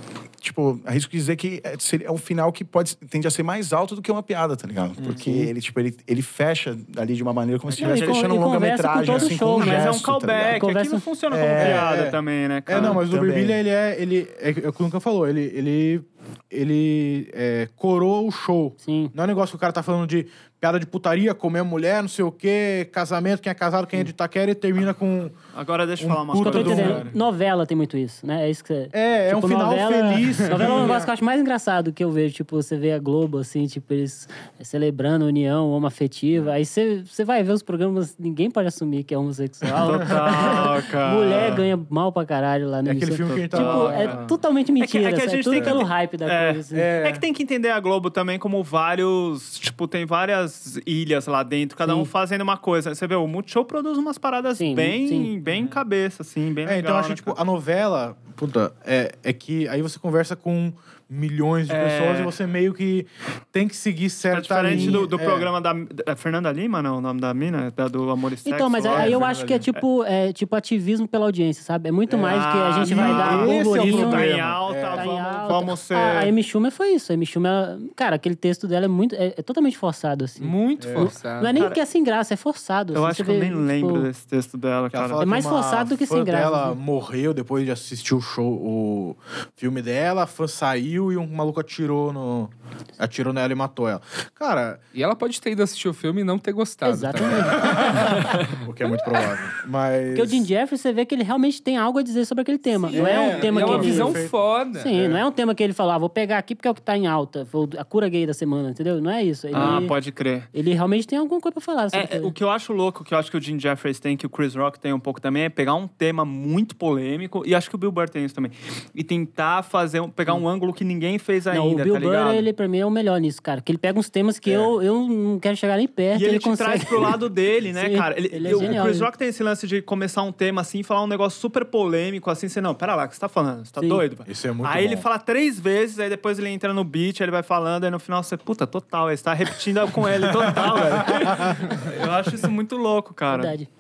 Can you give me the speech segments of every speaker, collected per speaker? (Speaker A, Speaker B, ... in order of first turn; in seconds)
Speaker A: 0.4-10.6, 11.3-11.8, 12.8-13.6
Speaker B: 5.0-5.5, 7.7-8.0, 11.3-25.4, 26.0-27.1, 28.9-31.1, 42.9-44.3, 46.7-47.2, 56.6-65.5, 68.9-69.7, 72.1-75.1, 80.8-81.1, 84.9-94.8, 97.3-100.5, 102.9-104.3, 104.9-105.2, 109.5-109.9, 124.5-124.7, 128.5-128.8, 134.3-135.1, 140.4-141.6
Speaker C: 7.8-10.0, 10.5-11.0, 18.8-19.1, 26.4-46.9, 51.9-52.1, 54.6-55.3, 64.7-65.0, 68.5-74.3, 74.9-84.1, 85.2-86.8, 96.8-98.3, 100.1-104.2, 104.8-110.0, 110.5-112.3, 121.5-127.2, 127.7-129.1, 133.8-134.0, 143.3-143.7
Speaker D: 9.6-13.1, 25.5-27.1, 39.8-41.6, 43.3-44.2, 44.8-57.4, 61.7-62.4, 64.3-69.8, 72.3-76.3, 81.6-81.8, 82.9-85.2, 109.5-110.5, 111.9-122.5, 126.1-143.6
Speaker E: 80.4-81.6, 95.0-98.2, 102.8-104.9